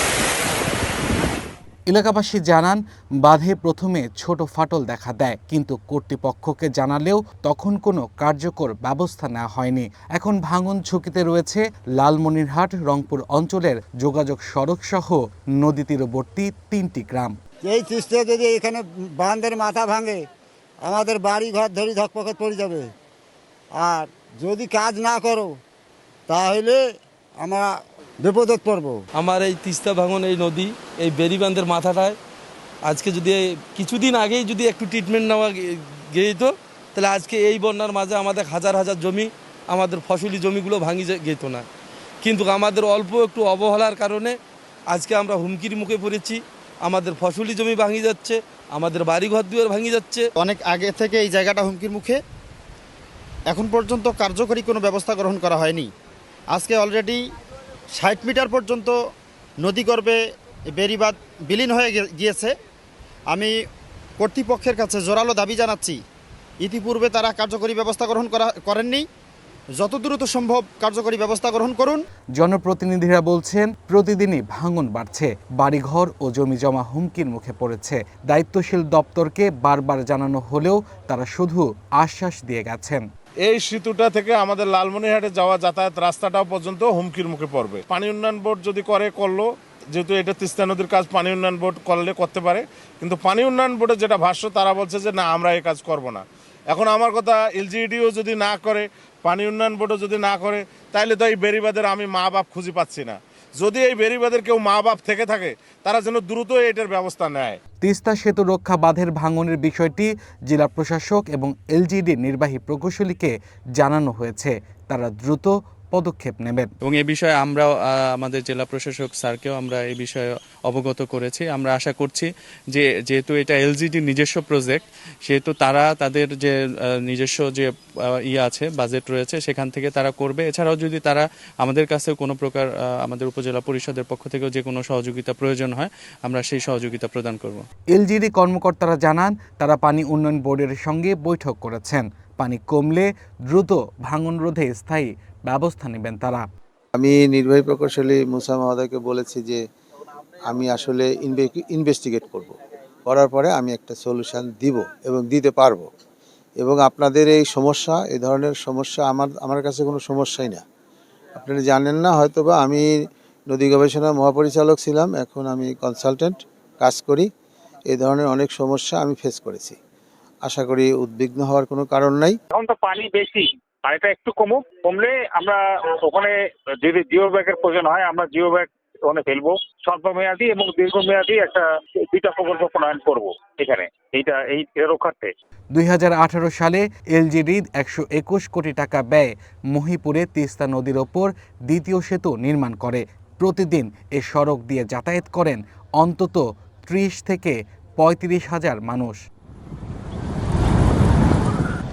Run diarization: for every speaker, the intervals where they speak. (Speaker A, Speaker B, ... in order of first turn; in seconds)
Speaker A: 1.9-17.3, 72.4-83.0, 107.8-116.7, 137.9-146.4, 185.7-199.2
Speaker B: 17.6-20.2, 20.8-22.9, 23.8-25.6, 26.3-29.0
Speaker C: 29.1-32.2, 32.8-41.7, 42.2-44.4, 44.9-50.3
Speaker D: 50.4-52.2, 53.5-55.9, 56.5-57.2, 58.0-59.0, 59.6-60.2, 60.7-62.5, 64.2-66.0, 66.6-69.0, 69.8-72.0
Speaker E: 83.4-107.6
Speaker F: 116.8-127.7, 128.2-137.7
Speaker G: 146.9-149.6, 150.4-155.9, 156.6-160.6, 161.4-162.9, 163.5-167.3, 167.9-169.8, 170.4-172.4
Speaker H: 172.5-185.3